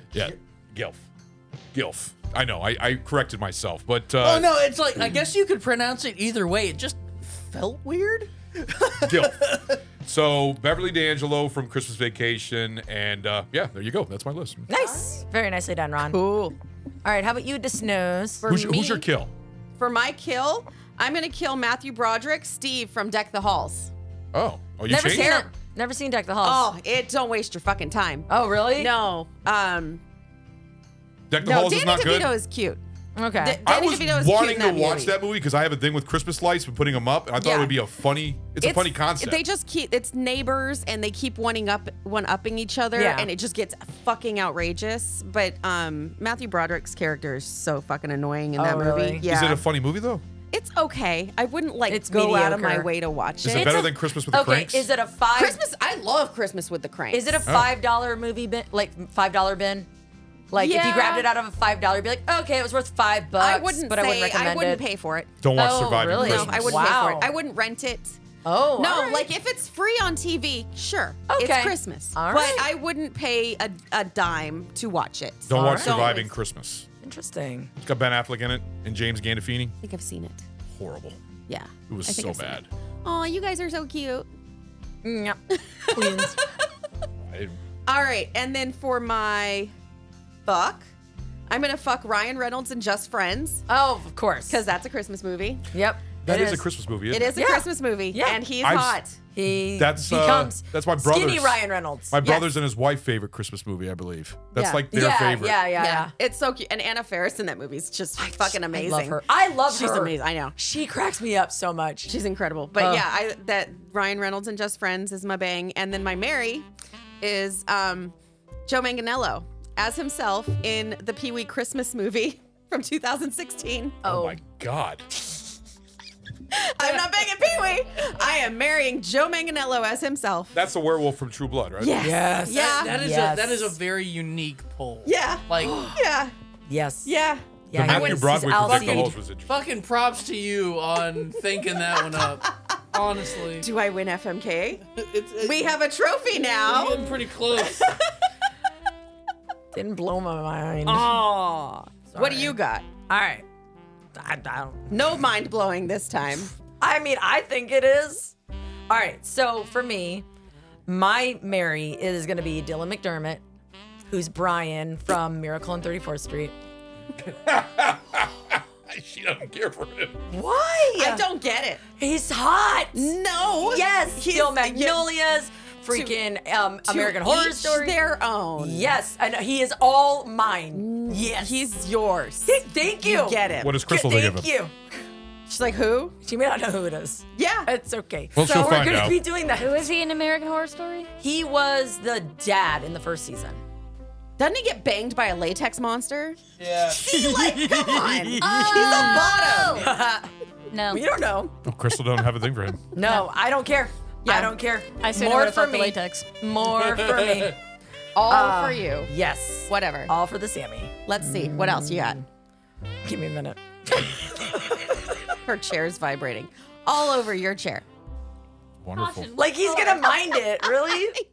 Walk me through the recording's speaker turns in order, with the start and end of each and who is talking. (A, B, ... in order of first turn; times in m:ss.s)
0:00.1-0:01.0 A
0:01.7-0:04.5 A
0:04.2-0:09.8 B
0:09.0-0:09.4 A
0:10.0-0:14.7 A
0:14.7-0:16.2 C
0:16.1-0:16.6 D
0:17.0-0:18.5 C
0:18.4-0:19.0 D
0:18.4-0:19.3 A
0:19.8-0:23.9 D
0:24.3-0:25.4 A
0:24.9-0:26.6 C
0:24.9-0:25.5 D
0:26.4-0:30.0 D
0:28.3-0:28.9 C
0:31.3-0:32.3 A
0:31.4-0:32.8 D
0:33.2-0:33.6 C
0:33.4-0:35.2 D
0:33.6-0:39.4 A
0:37.4-0:37.8 D
0:38.6-0:49.7 D
0:42.9-0:43.3 C
0:48.6-0:49.3 C
0:49.2-0:50.2 A
0:50.5-0:53.9 D
0:51.9-0:52.9 C
0:53.4-0:54.9 A
0:53.5-0:55.6 C
0:55.3-0:57.4 D
0:57.1-0:59.9 C
1:00.5-1:04.8 C
1:00.5-1:01.1 E
1:01.0-1:01.2 D
1:03.4-1:05.4 D
1:05.4-1:06.8 A
1:05.5-1:07.3 C
1:06.1-1:08.2 D
1:08.4-1:09.3 C
1:08.8-1:16.3 D
1:11.3-1:12.7 C
1:15.5-1:16.9 A
1:15.5-1:16.1 C
1:17.0-1:17.7 C
1:17.8-1:19.7 A
1:19.8-1:20.4 D
1:20.7-1:21.2 A
1:21.5-1:24.3 D
1:21.9-1:22.7 A
1:25.0-1:26.4 C
1:25.9-1:26.4 D
1:27.2-1:27.6 A
1:27.8-1:29.7 D
1:30.4-1:30.8 D
1:31.5-1:33.6 D
1:33.7-1:34.6 C
1:34.5-1:35.6 D
1:35.7-1:36.7 C
1:36.2-1:37.5 A
1:37.1-1:39.2 D
1:37.4-1:38.4 C
1:38.6-1:39.0 A
1:39.3-1:42.2 C
1:39.7-1:45.7 A
1:42.2-1:42.5 D
1:44.5-1:44.8 D
1:44.9-1:46.1 C
1:45.7-1:50.5 D
1:48.2-1:52.1 C
1:52.0-1:56.7 D
1:52.8-1:53.0 C
1:57.2-1:58.1 D
1:58.7-2:04.0 D
2:04.0-2:05.2 A
2:04.1-2:04.4 C
2:06.5-2:10.6 D
2:10.5-2:12.0 A
2:11.8-2:12.9 D
2:12.0-2:13.7 C
2:12.4-2:15.9 B
2:15.0-2:16.3 D
2:16.7-2:17.1 C
2:17.0-2:19.1 D
2:17.7-2:19.2 C
2:17.7-2:19.6 A
2:18.7-2:23.7 B
2:23.6-2:24.8 D
2:24.9-2:25.7 B
2:25.4-2:27.2 D
2:26.3-2:28.0 B
2:29.7-2:31.2 C
2:30.8-2:32.8 D
2:32.1-2:32.6 C
2:33.1-2:33.4 C
2:34.2-2:35.0 C
2:34.9-2:36.5 D
2:36.8-2:38.3 C
2:38.9-2:40.2 C
2:40.9-2:43.4 C
2:44.1-2:46.5 C
2:47.2-2:50.2 A
2:50.3-2:51.2 C
2:50.9-2:51.8 D
2:52.0-2:58.0 C
2:52.9-2:55.0 D
2:55.9-2:56.2 D
2:56.8-2:59.0 D
2:58.6-3:01.7 C
3:00.7-3:03.8 D
3:02.4-3:04.7 C
3:03.6-3:04.5 A
3:05.5-3:06.1 D
3:06.2-3:09.9 C
3:07.3-3:07.7 D
3:08.3-3:09.2 A
3:09.5-3:11.1 E
3:11.2-3:13.6 C
3:14.4-3:16.4 D
3:16.6-3:17.1 B
3:16.9-3:19.9 D
3:17.0-3:20.3 C
3:18.4-3:19.9 E
3:20.7-3:21.0 E
3:20.8-3:21.5 C
3:21.6-3:22.8 A
3:22.8-3:27.6 C
3:23.0-3:23.3 E
3:24.2-3:24.5 D
3:25.0-3:26.3 E
3:27.1-3:27.4 B
3:28.1-3:29.1 D
3:28.2-3:32.2 C
3:29.7-3:30.1 D
3:31.0-3:32.2 D
3:33.0-3:35.2 C
3:35.4-3:37.8 D
3:38.8-3:39.3 A
3:38.9-3:40.1 E
3:39.3-3:41.2 C